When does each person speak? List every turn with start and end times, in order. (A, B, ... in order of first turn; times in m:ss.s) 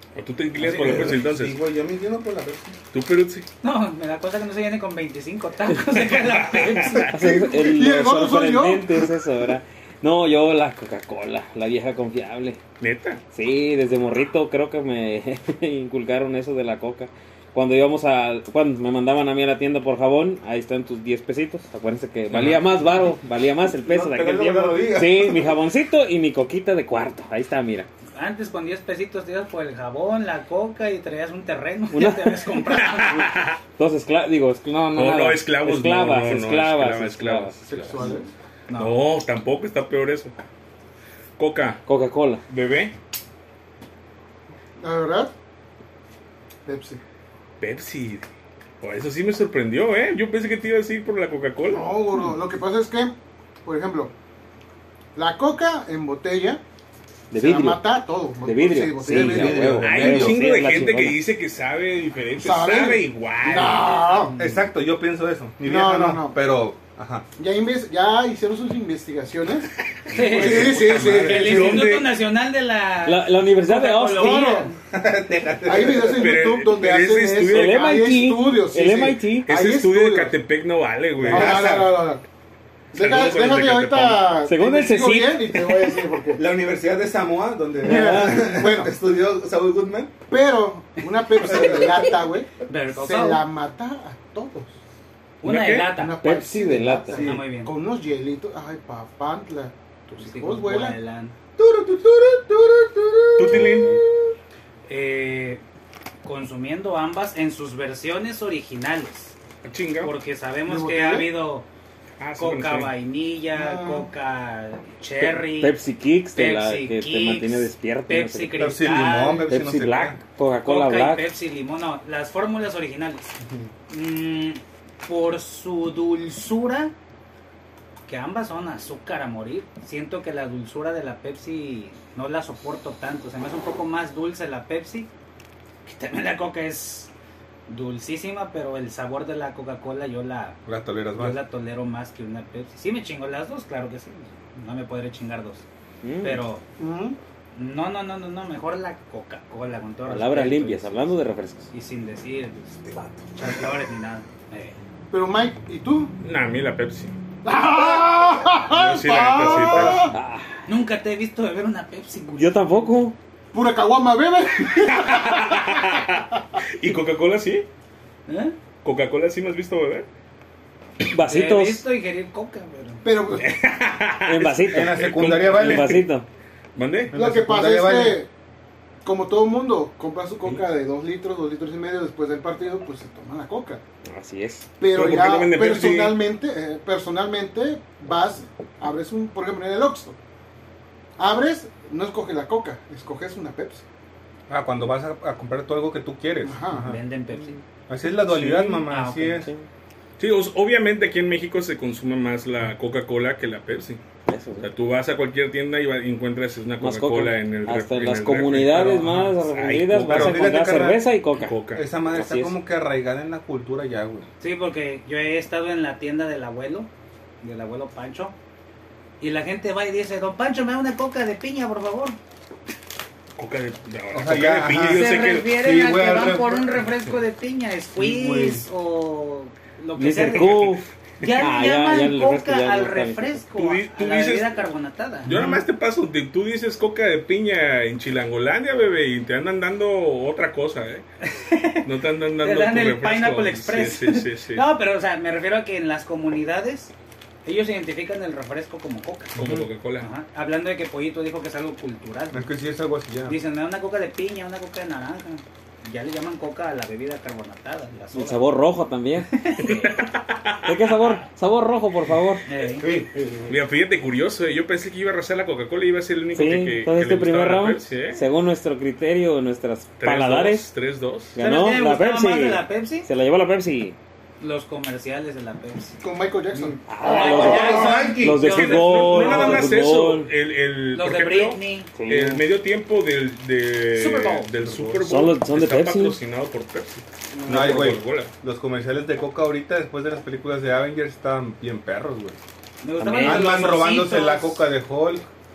0:00.1-0:01.6 A
0:00.6-0:02.8 B
0:02.9-0:03.5 A
0:03.6-0:07.1 C
0:05.9-0:07.1 A
0:07.1-0:12.6 D
0:07.2-0:09.2 E
0:12.8-0:13.2 A
0:13.3-0:27.9 D
0:22.3-0:22.6 A
0:23.8-0:25.6 B
0:28.2-0:33.4 C
0:31.9-0:38.2 D
0:33.0-0:33.5 A
0:34.8-0:38.1 A
0:37.6-0:38.3 E
0:38.7-0:39.0 C
0:38.7-0:40.3 A
0:41.4-0:41.8 A
0:41.8-0:42.4 D
0:42.5-0:42.9 A
0:44.8-0:45.3 E
0:46.6-0:47.0 E
0:47.6-0:48.2 A
0:48.8-0:51.9 A
0:51.7-0:54.1 E
0:55.2-0:56.6 E
0:57.3-0:57.8 D
0:57.3-0:59.9 E
0:58.4-1:01.2 D
0:59.0-1:00.5 B
0:59.8-1:04.1 A
1:02.4-1:04.5 E
1:04.3-1:07.2 B
1:05.6-1:06.4 E
1:07.4-1:11.8 E
1:10.0-1:12.1 A
1:10.1-1:14.8 C
1:10.1-1:12.0 B
1:13.0-1:14.6 D
1:14.2-1:14.7 E
1:14.9-1:16.5 B
1:15.6-1:20.3 E
1:15.9-1:17.9 A
1:17.5-1:19.5 D
1:19.5-1:21.7 A
1:21.2-1:22.0 B
1:21.2-1:22.2 E
1:22.9-1:24.3 A
1:22.9-1:26.4 E
1:24.4-1:26.0 D
1:26.4-1:30.1 B
1:27.8-1:28.9 E
1:27.9-1:28.4 D
1:30.3-1:34.8 E
1:31.4-1:32.1 B
1:32.6-1:33.4 C
1:35.4-1:36.2 C
1:35.4-1:35.9 A
1:35.9-1:41.0 E
1:36.2-1:37.3 D
1:37.1-1:37.8 C
1:40.1-1:41.3 C
1:41.6-1:44.3 B
1:43.4-1:44.0 A
1:44.9-1:45.6 C
1:46.2-1:49.4 C
1:49.6-1:50.1 A
1:50.0-1:51.7 C
1:50.7-1:51.3 E
1:52.2-1:52.9 A
1:52.4-1:55.8 C
1:53.5-1:54.1 E
1:55.2-1:58.8 D
1:56.3-1:59.5 C
1:58.6-2:00.2 B
1:59.5-2:01.3 D
2:00.6-2:03.3 C
2:03.9-2:06.9 C
2:08.1-2:15.1 C
2:15.8-2:17.1 C
2:17.7-2:20.6 C
2:20.6-2:21.4 B
2:21.1-2:25.6 C
2:26.0-2:26.4 D
2:26.2-2:26.6 C
2:26.8-2:27.2 E
2:27.5-2:30.9 C
2:30.0-2:31.7 D
2:31.7-2:32.8 C
2:33.4-2:34.8 C
2:35.1-2:36.1 E
2:36.2-2:37.1 A
2:37.4-2:40.2 E
2:38.7-2:40.1 A
2:40.0-2:40.5 D
2:40.6-2:42.9 C
2:42.3-2:43.2 D
2:43.5-2:46.1 E
2:44.9-2:47.7 A
2:48.3-2:48.6 C
2:48.8-2:50.1 A
2:51.0-2:51.8 D
2:51.2-2:53.1 C
2:53.0-2:53.5 E
2:53.3-2:56.0 A
2:54.2-2:56.2 D
2:54.7-2:56.0 B
2:56.8-2:57.1 A
2:57.1-2:58.2 B
2:57.1-2:58.3 E
2:59.0-3:03.8 E
3:04.0-3:04.7 D
3:04.8-3:10.2 E
3:04.9-3:06.2 A
3:11.2-3:13.8 E
3:14.5-3:17.0 B
3:16.4-3:16.9 E
3:16.7-3:17.6 C
3:17.9-3:19.5 B
3:18.3-3:18.8 D
3:18.4-3:19.5 C
3:20.2-3:24.0 A
3:24.3-3:24.7 D
3:24.6-3:30.6 A
3:26.8-3:31.6 D
3:30.0-3:31.1 B
3:31.4-3:31.8 A
3:31.7-3:34.3 B
3:32.1-3:32.6 D
3:34.4-3:36.9 C
3:37.4-3:38.3 C
3:39.2-3:42.2 C
3:43.4-3:45.5 A
3:44.1-3:47.0 B
3:44.8-3:55.3 C
3:48.0-3:48.6 B
3:50.0-3:53.4 D
3:50.3-3:50.8 A
3:53.5-3:54.6 A
3:55.3-4:01.0 A
3:55.3-3:55.6 B
4:01.2-4:01.9 C
4:01.8-4:04.6 A
4:02.4-4:06.9 C
4:07.4-4:09.4 C
4:09.3-4:10.1 A
4:10.0-4:12.4 C
4:12.3-4:13.4 B
4:13.2-4:18.5 C
4:18.1-4:19.5 D
4:19.3-4:20.0 C
4:19.6-4:20.9 A
4:20.6-4:22.4 D
4:22.4-4:22.9 C
4:22.8-4:23.5 B
4:23.5-4:28.2 A
4:26.3-4:30.7 D
4:30.0-4:31.4 A
4:31.3-4:34.0 D
4:31.4-4:33.1 C
4:34.4-4:36.0 C
4:36.0-4:38.0 E
4:36.5-4:38.8 B
4:36.9-4:40.3 D
4:37.0-4:39.8 C
4:38.4-4:48.3 A
4:40.9-4:41.9 C
4:42.0-4:42.4 D
4:43.9-4:44.5 C
4:44.6-4:45.0 B
4:45.0-4:46.2 D
4:47.3-4:47.8 E
4:47.5-4:52.4 B
4:52.8-4:54.6 C
4:53.0-4:53.7 D
4:53.2-4:55.3 B